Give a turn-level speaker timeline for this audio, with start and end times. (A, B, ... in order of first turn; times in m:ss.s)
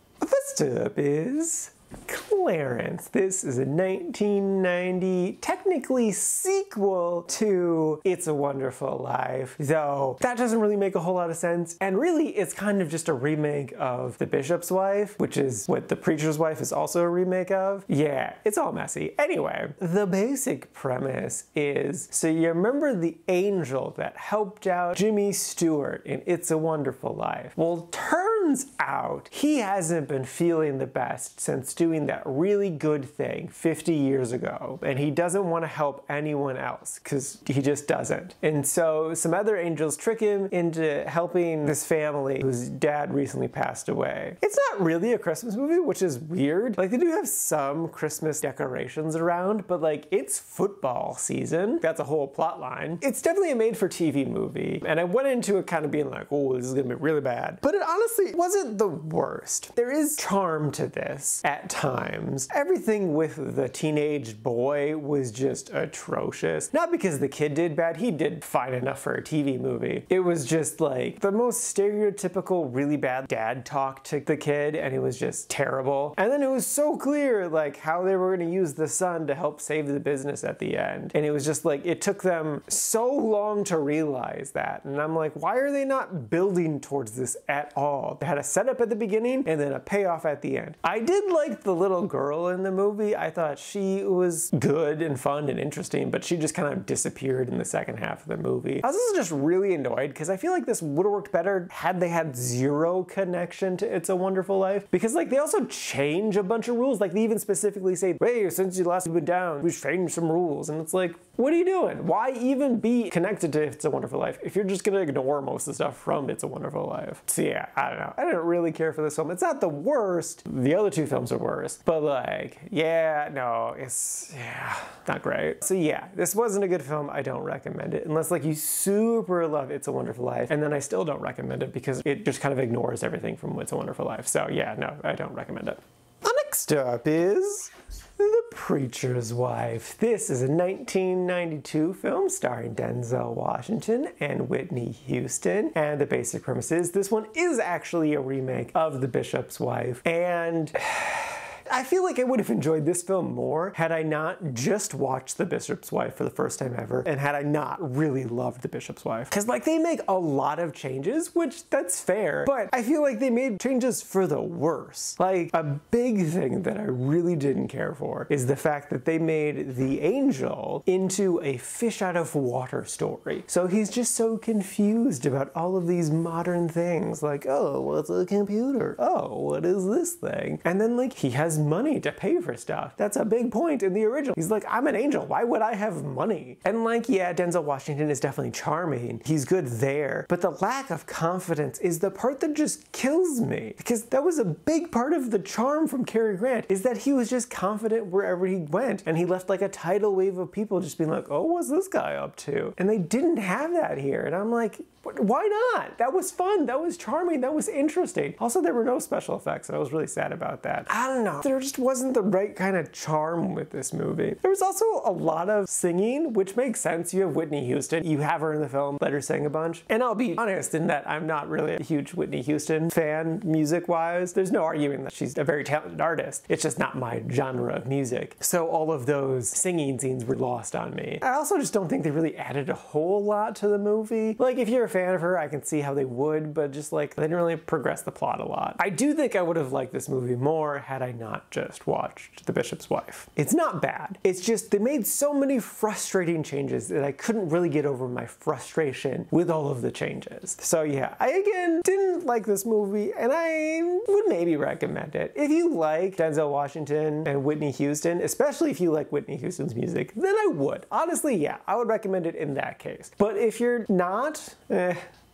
0:00.2-4:25.0 A